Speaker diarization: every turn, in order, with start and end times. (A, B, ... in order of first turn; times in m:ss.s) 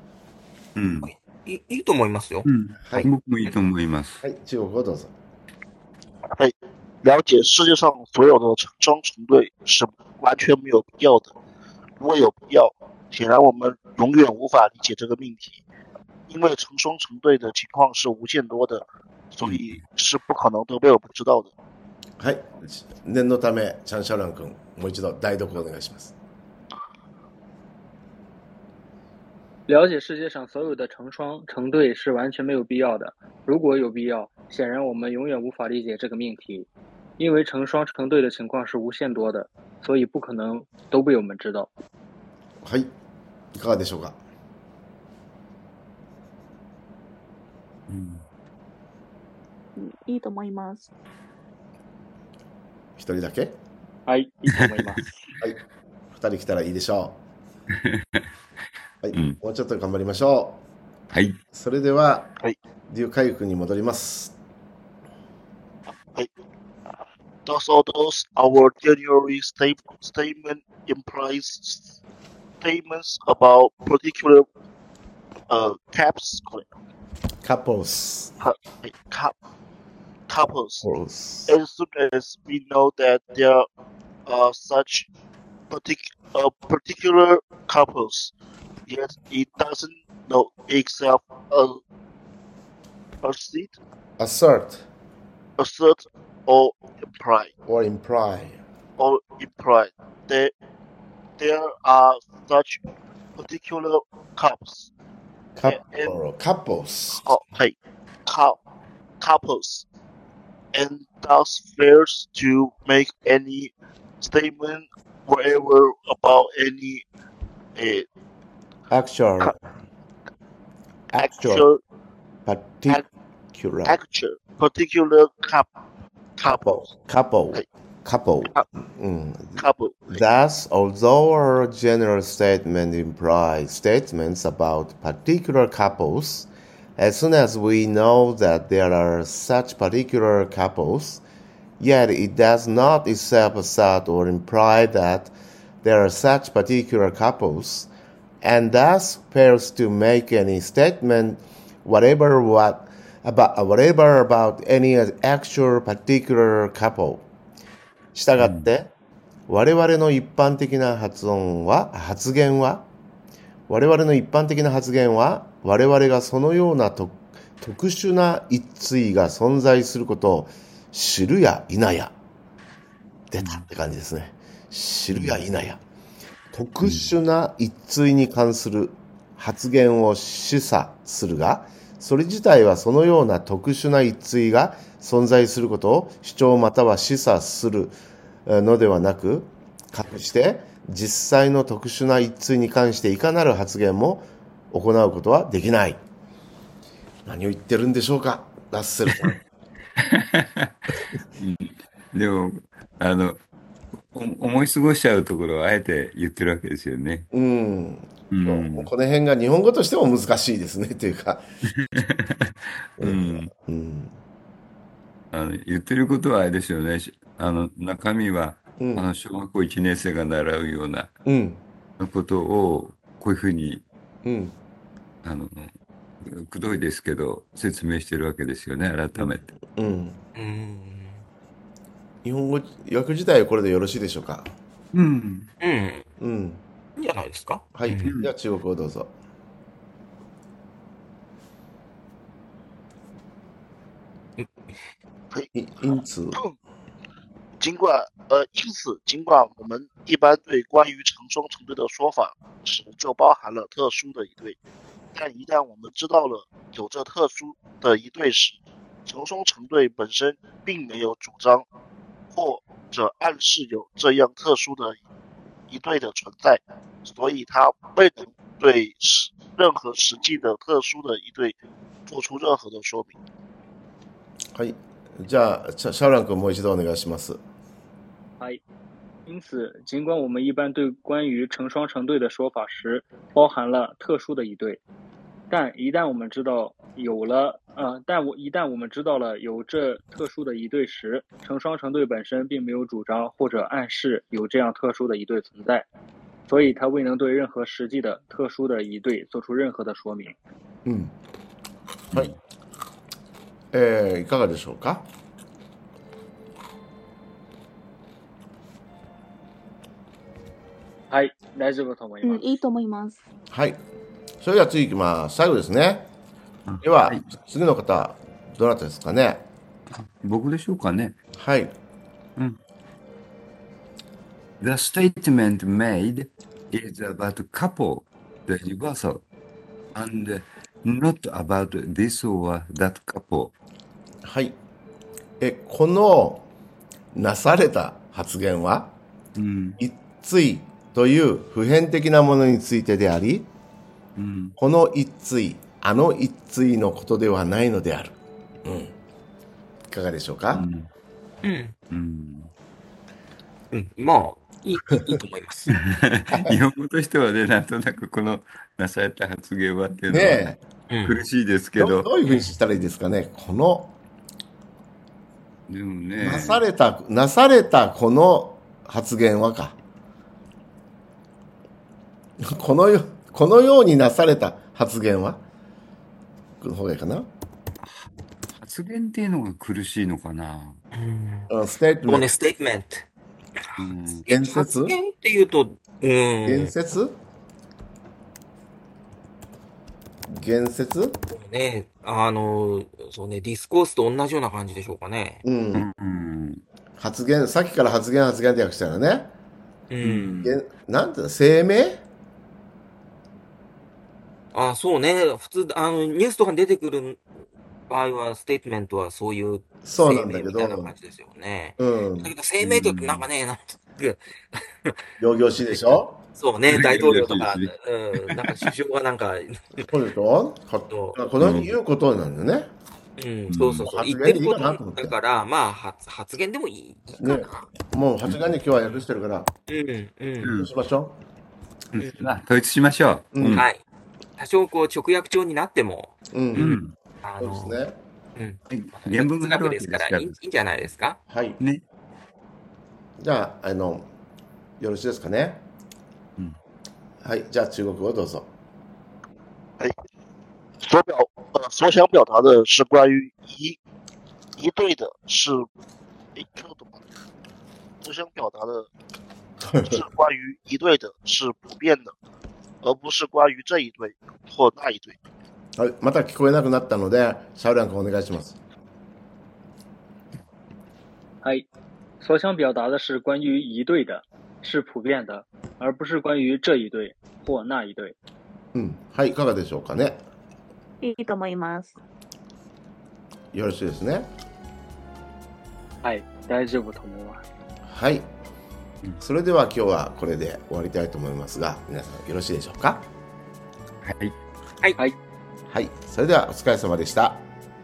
0:00.8-0:01.1 A
0:01.0-0:02.5 B
0:02.4-0:04.2 A
0:04.2-0:05.1 C
0:06.4-0:11.3 D
0:12.0-0:15.6 D
0:16.3-0:21.5 D
0:19.4-0:19.7 A
0:22.2-0:26.1 C
0:29.7-0:41.7 E
0:42.6-0:42.9 C
0:43.5-0:44.2 C
0:47.9-0:48.2 A
0:49.8-0:50.9 F
0:53.0-0:53.6 C
0:54.1-0:55.0 E
0:54.5-0:55.0 A
0:56.1-0:57.2 C
0:57.7-0:58.2 A
0:59.0-1:00.6 C
0:59.1-0:59.4 A
1:01.1-1:01.4 A
1:01.5-1:02.3 C
1:02.9-1:04.3 C
1:06.0-1:06.3 D
1:07.4-1:12.0 D
1:12.6-1:14.5 D
1:15.5-1:16.7 D
1:17.4-1:18.3 C
1:18.4-1:19.3 D
1:20.3-1:20.8 D
1:20.8-1:21.6 C
1:21.5-1:23.6 D
1:24.3-1:25.1 D
1:25.7-1:28.3 D
1:28.9-1:31.8 D
1:33.2-1:33.7 D
1:34.2-1:34.8 C
1:35.6-1:37.5 D
1:37.6-1:38.6 C
1:39.0-1:40.5 D
1:41.4-1:42.8 D
1:43.4-1:44.9 D
1:45.6-1:47.3 C
1:45.6-1:46.2 D
1:47.2-1:48.6 D
1:49.2-1:49.8 D
1:50.7-1:57.0 D
1:57.8-1:58.1 D
1:58.9-1:59.7 C
2:01.1-2:01.7 C
2:01.2-2:01.8 D
2:02.4-2:03.0 C
2:03.5-2:04.0 C
2:03.9-2:05.7 D
2:06.4-2:06.9 D
2:06.4-2:21.2 C
2:09.6-2:10.2 D
2:21.8-2:27.9 C
2:28.4-2:37.3 C
2:38.1-2:38.9 C
2:38.4-2:38.7 A
2:39.5-2:42.9 C
2:43.7-2:52.1 C
2:53.3-2:55.8 C
2:53.4-2:53.6 A
2:55.1-2:55.4 A
2:56.5-3:16.0 C
2:56.8-2:57.1 A
3:17.2-3:19.4 C
3:20.0-3:20.7 A
3:21.4-3:23.4 A
3:24.1-3:27.3 A
3:27.3-3:31.4 C
3:28.3-3:28.9 A
3:31.7-3:33.5 A
3:33.0-3:34.2 C
3:35.3-3:41.1 A
3:38.8-3:39.1 C
3:41.2-3:41.6 C
3:42.0-3:43.8 A
3:44.2-3:44.6 C
3:45.2-3:45.7 A
3:46.2-3:49.4 A
3:49.8-3:50.2 C
3:50.3-3:51.2 B
3:52.2-3:54.5 C
3:54.9-3:55.5 A
3:55.6-3:56.1 B
3:56.2-3:56.6 C
3:57.0-3:58.1 B
3:57.7-3:59.1 C
3:58.0-3:58.3 A
4:05.5-4:06.4 C
4:07.6-4:14.6 D
4:15.1-4:21.7 D
4:22.3-4:25.0 D
4:25.7-4:33.1 D
4:34.5-4:37.4 C
4:39.2-4:44.8 E
4:45.5-4:55.9 E
4:56.5-5:00.3 E
5:00.8-5:01.1 C
5:02.1-5:02.4 A
5:03.7-5:05.1 C
5:11.1-5:12.5 E
5:12.2-5:13.2 F
5:13.5-5:13.8 C
5:14.4-5:16.1 C
5:16.6-5:17.3 A
5:16.8-5:19.4 C
5:19.9-5:21.2 A
5:21.4-5:21.7 C
5:24.6-5:29.2 A
5:29.9-5:33.5 A
5:34.2-5:34.6 C
5:35.4-5:36.4 C
5:37.1-5:39.0 C
5:39.4-5:39.8 A
5:39.8-5:43.5 C
5:44.2-5:44.5 A
5:44.6-5:48.9 C
5:49.9-5:50.6 C
5:50.5-5:50.9 A
5:51.4-5:51.7 B
5:51.9-5:52.5 A
5:53.7-5:55.7 B
5:55.7-6:00.5 A
5:56.3-5:56.6 C
6:00.1-6:00.6 C
6:00.9-6:01.2 B
6:01.0-6:02.1 A
6:01.8-6:03.9 C
6:05.7-6:06.6 A
6:06.2-6:09.8 C
6:12.4-6:15.4 C
6:16.6-6:17.3 C
6:18.5-6:20.8 A
6:20.9-6:21.5 B
6:21.5-6:22.3 C
6:22.1-6:23.0 B
6:23.8-6:24.2 A
6:24.2-6:26.7 B
6:24.3-6:24.9 C
6:26.4-6:27.2 C
6:30.3-6:31.2 C
6:31.3-6:35.4 B
6:35.4-6:35.9 C
6:35.7-6:36.6 A
6:37.0-6:39.3 C
6:39.9-6:40.4 B
6:40.0-6:40.6 A
6:40.4-6:42.0 C
6:44.5-6:47.2 B
6:47.9-6:55.0 B
6:49.8-6:50.9 C
6:51.8-6:52.3 C
6:52.6-6:53.2 A
6:55.2-6:56.2 C
6:55.9-6:59.9 B
6:56.7-6:58.7 A
6:59.9-7:02.7 C
7:00.9-7:01.2 B
7:01.4-7:01.7 A
7:03.2-7:07.7 B
7:03.5-7:03.9 A
7:03.8-7:05.1 C
7:07.2-7:09.5 C
7:09.7-7:10.5 B
7:10.4-7:10.7 A
7:10.5-7:11.2 C
7:11.9-7:13.6 A
7:13.3-7:13.6 C
7:13.5-7:13.8 B
7:14.4-7:17.8 B
7:16.3-7:16.8 C
7:16.6-7:16.9 A
7:17.4-7:18.0 C
7:18.4-7:21.2 B
7:18.7-7:20.4 A
7:21.3-7:21.6 C
7:23.2-7:24.1 C
7:24.8-7:25.6 C
7:27.2-7:28.5 C
7:30.8-7:33.8 D
7:34.6-7:35.6 D
7:36.3-7:37.0 D
7:38.0-7:38.9 D
7:39.6-7:40.0 C
7:39.8-7:42.1 D
7:42.8-7:45.2 D
7:45.8-7:48.6 C
7:52.2-7:58.1 E
7:58.7-8:00.2 C
8:01.0-8:02.0 F
8:03.5-8:04.3 C
8:06.0-8:07.4 E
8:07.8-8:08.3 C
8:09.2-8:13.0 C
8:14.0-8:14.4 A
8:15.7-8:17.4 C